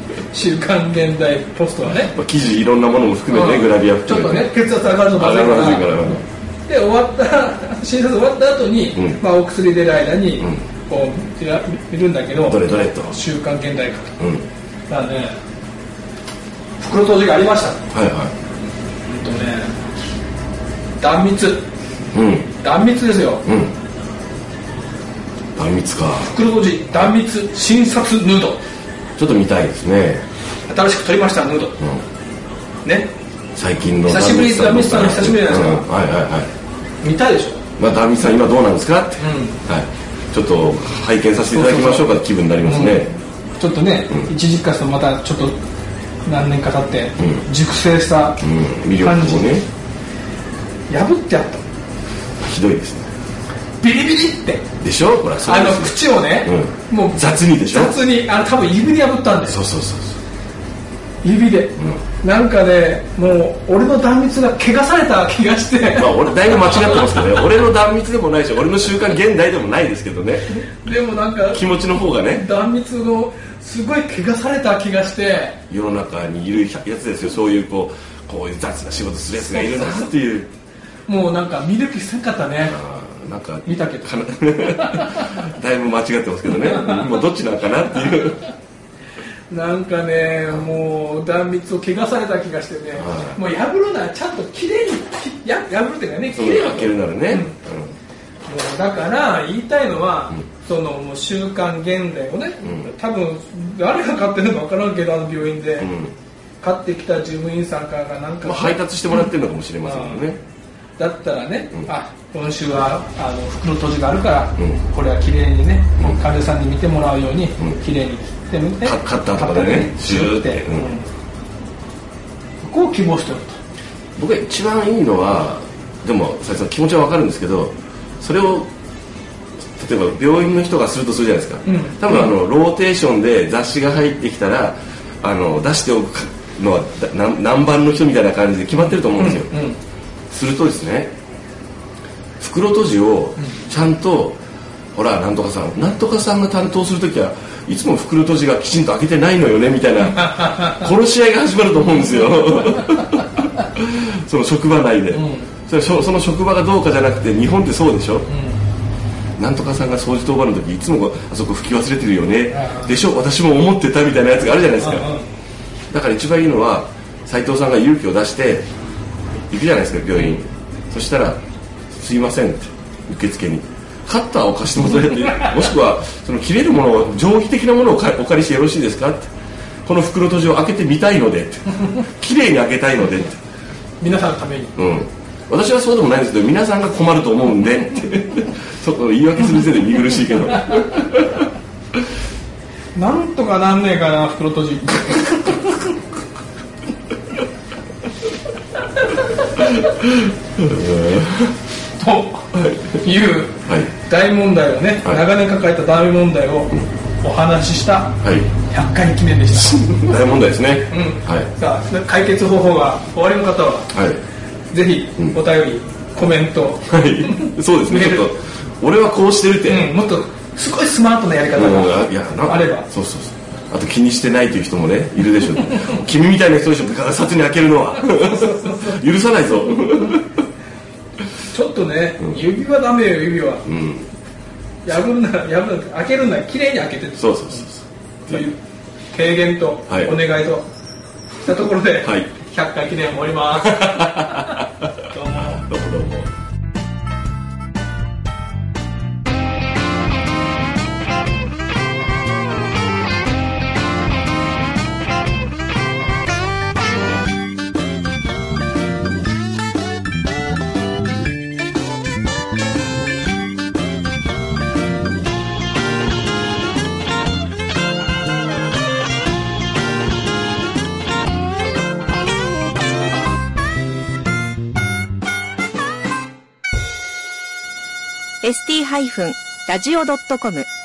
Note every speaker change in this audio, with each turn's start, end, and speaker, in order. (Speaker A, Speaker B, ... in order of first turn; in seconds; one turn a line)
Speaker A: 0.3-2.2
Speaker B: 1.9-4.5
Speaker A: 3.3-14.2
Speaker B: 5.1-6.2
Speaker B: 12.4-13.2
Speaker B: 14.2-14.4
Speaker A: 14.9-15.4
Speaker A: 16.8-17.8
Speaker B: 17.9-18.3
Speaker A: 19.1-19.7
Speaker A: 21.0-21.7
Speaker B: 22.1-22.5
Speaker A: 22.6-23.5
Speaker B: 23.5-23.7
Speaker B: 25.6-26.4
Speaker A: 26.2-28.6
Speaker B: 29.2-30.2
Speaker A: 30.7-31.8
Speaker A: 32.8-33.1
Speaker B: 33.6-36.5
Speaker A: 34.1-35.9
Speaker A: 37.0-37.6
Speaker B: 37.8-43.1
Speaker A: 39.2-39.6
Speaker A: 41.5-42.1
Speaker A: 42.6-45.6
Speaker A: 46.3-48.4
Speaker B: 47.2-47.4
Speaker B: 48.4-49.6
Speaker A: 49.0-49.6
Speaker A: 50.9-51.6
Speaker B: 52.4-53.1
Speaker A: 53.8-54.7
Speaker B: 54.8-58.0
Speaker A: 55.4-59.6
Speaker B: 59.5-60.2
Speaker A: 61.2-67.4
Speaker B: 66.0-70.7
Speaker A: 70.8-71.7
Speaker B: 71.5-72.5
Speaker A: 72.3-75.6
Speaker B: 75.7-80.5
Speaker A: 79.4-80.1
Speaker A: 81.1-82.8
Speaker B: 82.7-88.5
Speaker A: 83.7-85.4
Speaker A: 86.6-87.0
Speaker A: 89.5-97.6
Speaker B: 93.0-93.4
Speaker B: 96.3-97.9
Speaker A: 98.5-105.9
Speaker B: 102.6-102.9
Speaker B: 105.8-106.2
Speaker A: 106.6-108.8
Speaker B: 108.4-110.4
Speaker A: 109.8-110.3
Speaker A: 111.0-121.1
Speaker B: 118.8-120.9
Speaker A: 122.6-123.6
Speaker B: 124.2-128.7
Speaker B: 129.8-139.5
Speaker A: 131.7-132.3
Speaker A: 138.7-139.8
Speaker B: 140.3-141.1
Speaker B: 142.4-144.4
Speaker B: 144.9-158.3
Speaker A: 150.2-150.9
Speaker A: 155.1-155.5
Speaker A: 158.3-158.6
Speaker B: 159.4-165.1
Speaker A: 162.5-163.0
Speaker A: 164.8-165.3
Speaker B: 165.9-168.7
Speaker B: 169.5-171.4
Speaker B: 171.9-179.3
Speaker B: 179.9-183.4
Speaker A: 184.0-184.8
Speaker B: 184.8-191.5
Speaker A: 192.9-196.0
Speaker B: 199.6-201.6
Speaker A: 202.0-210.2
Speaker B: 202.5-203.0
Speaker B: 203.7-203.9
Speaker B: 208.2-208.5
Speaker B: 209.8-211.5
Speaker A: 210.9-213.9
Speaker B: 213.9-214.2
Speaker A: 214.7-218.3
Speaker B: 216.9-219.9
Speaker A: 219.7-222.9
Speaker B: 221.5-230.4
Speaker A: 228.0-229.0
Speaker A: 231.5-233.7
Speaker B: 233.7-234.1
Speaker A: 234.8-237.7
Speaker B: 237.2-238.5
Speaker A: 238.3-238.6
Speaker A: 239.1-240.7
Speaker B: 239.9-240.2
Speaker A: 241.4-245.7
Speaker B: 242.0-242.3
Speaker B: 243.6-244.9
Speaker B: 245.5-246.3
Speaker C: 278.4-280.7